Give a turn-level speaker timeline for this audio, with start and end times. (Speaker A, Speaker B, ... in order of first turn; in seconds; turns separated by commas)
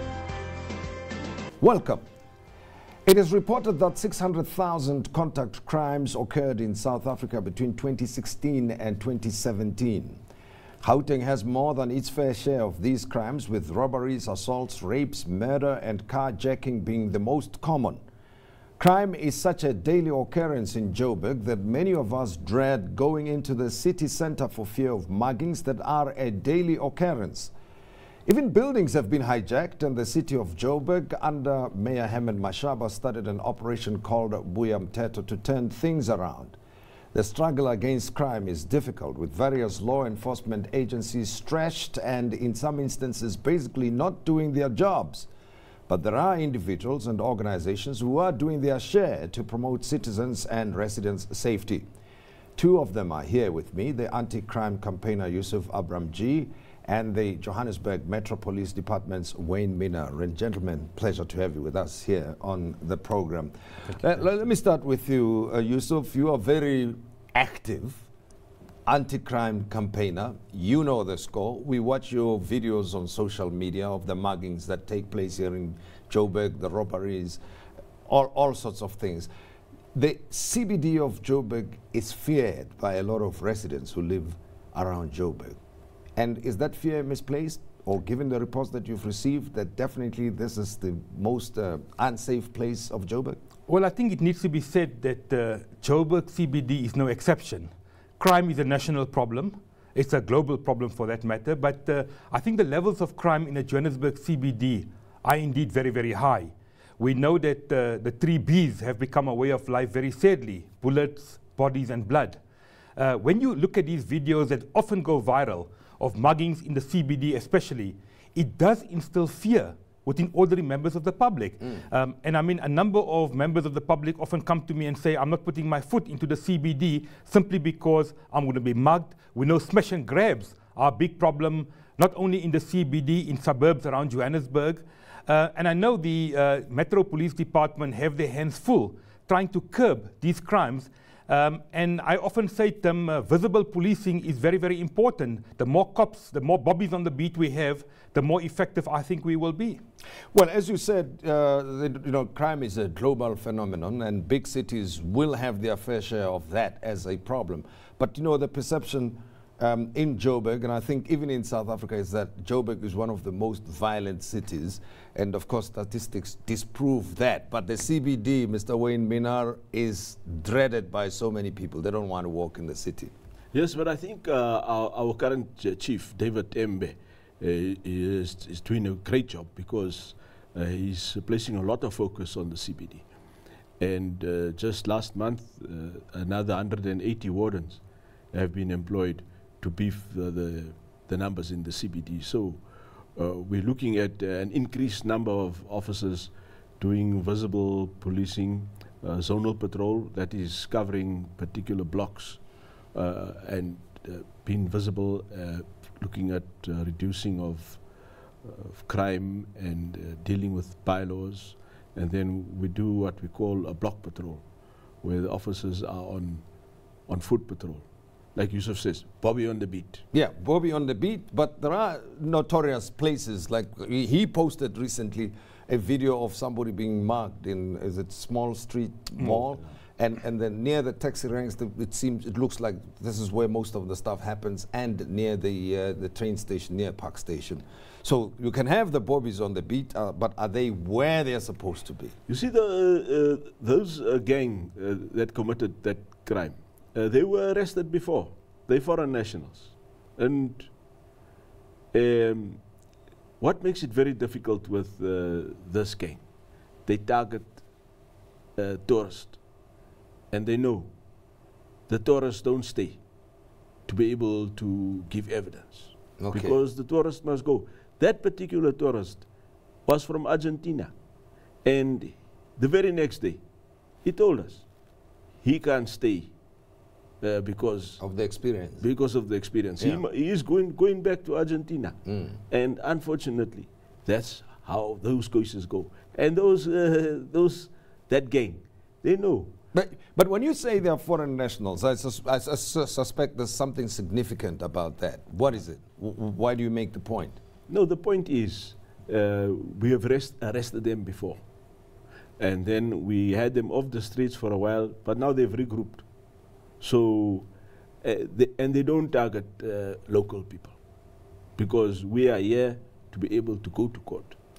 Speaker A: 1.6-2.0, Speaker A: 3.0-10.2, Speaker A: 10.8-18.0, Speaker A: 18.8-27.5, Speaker A: 28.2-36.5, Speaker A: 37.1-45.3, Speaker A: 45.9-51.9, Speaker A: 52.5-68.1, Speaker A: 68.8-77.4, Speaker A: 78.1-79.3, Speaker A: 79.9-85.6, Speaker A: 86.2-93.4, Speaker B: 93.7-112.4, Speaker B: 113.0-149.8, Speaker A: 150.3-173.1, Speaker C: 173.5-183.1, Speaker C: 183.8-207.9, Speaker C: 208.4-214.4, Speaker C: 215.0-216.4, Speaker C: 217.1-220.0, Speaker A: 220.1-242.1, Speaker C: 242.3-250.7, Speaker C: 251.9-252.6, Speaker C: 253.4-256.2, Speaker C: 256.8-257.6, Speaker C: 258.6-259.4, Speaker C: 260.3-260.9, Speaker C: 261.9-263.0, Speaker C: 263.9-269.3, Speaker A: 266.2-266.6, Speaker C: 269.9-270.9, Speaker C: 271.6-273.4, Speaker C: 274.0-274.6, Speaker C: 275.4-276.3, Speaker C: 277.2-278.0, Speaker A: 278.0-278.9, Speaker C: 278.8-289.5, Speaker A: 289.7-297.4, Speaker C: 297.7-301.4, Speaker C: 302.4-306.0, Speaker C: 306.8-307.5, Speaker C: 308.0-310.8, Speaker C: 311.6-314.4